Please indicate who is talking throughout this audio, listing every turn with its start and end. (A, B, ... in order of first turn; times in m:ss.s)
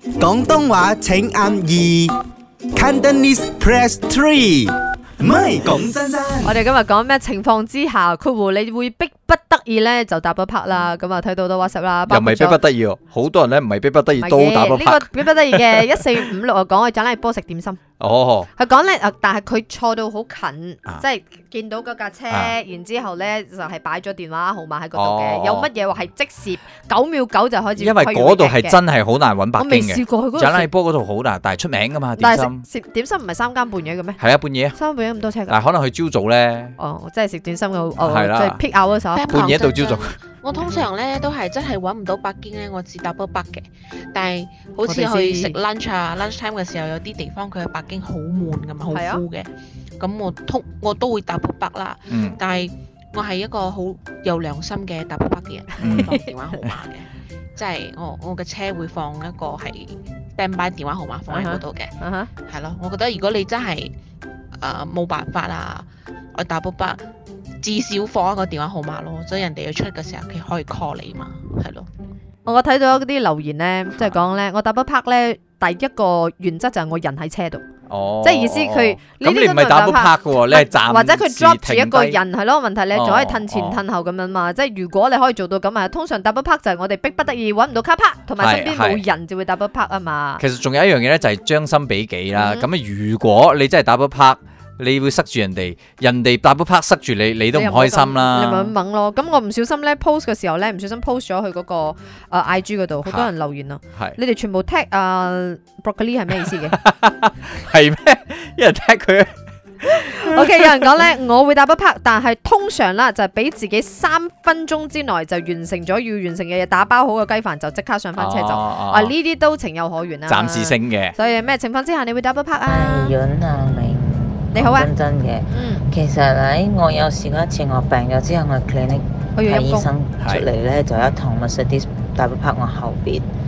0:00.2-0:02.1 A
0:02.8-0:06.5 A
0:06.4-0:12.6 B
0:12.1-0:16.0 C
0:14.2-0:17.8 B
0:18.0-0:18.5 C
0:18.6-0:28.8 B
0:25.0-0:25.7 C
0:27.8-0:32.6 C
0:29.6-0:30.7 B
0:32.2-0:34.2 B
0:34.2-0:34.8 C
0:34.7-0:35.6 B
0:35.5-0:36.8 C
0:36.8-0:39.3 B
0:38.0-0:38.6 C
0:39.1-1:01.9 D
0:39.3-0:40.2 C
0:44.9-0:45.6 B
0:48.9-0:49.2 B
0:52.1-0:52.4 C
0:55.8-0:56.7 C
0:55.9-0:56.2 B
1:01.3-1:02.3 B
1:02.5-1:03.9 D
1:04.6-1:07.0 D
1:07.6-1:11.9 D
1:12.5-1:17.6 B
1:17.9-1:22.2 C
1:18.2-1:30.4 B
1:22.9-1:23.8 C
1:28.4-1:29.0 C
1:30.4-1:38.7 C
1:32.3-1:32.7 B
1:37.5-1:46.8 B
1:43.0-1:43.3 C
1:46.5-1:49.3 C
1:49.8-1:51.0 C
1:49.9-2:03.1 B
1:58.2-1:59.1 C
2:00.3-2:01.2 C
2:02.7-2:13.3 E
2:04.5-2:04.9 B
2:05.5-2:05.9 B
2:09.4-2:09.9 B
2:10.2-2:10.5 C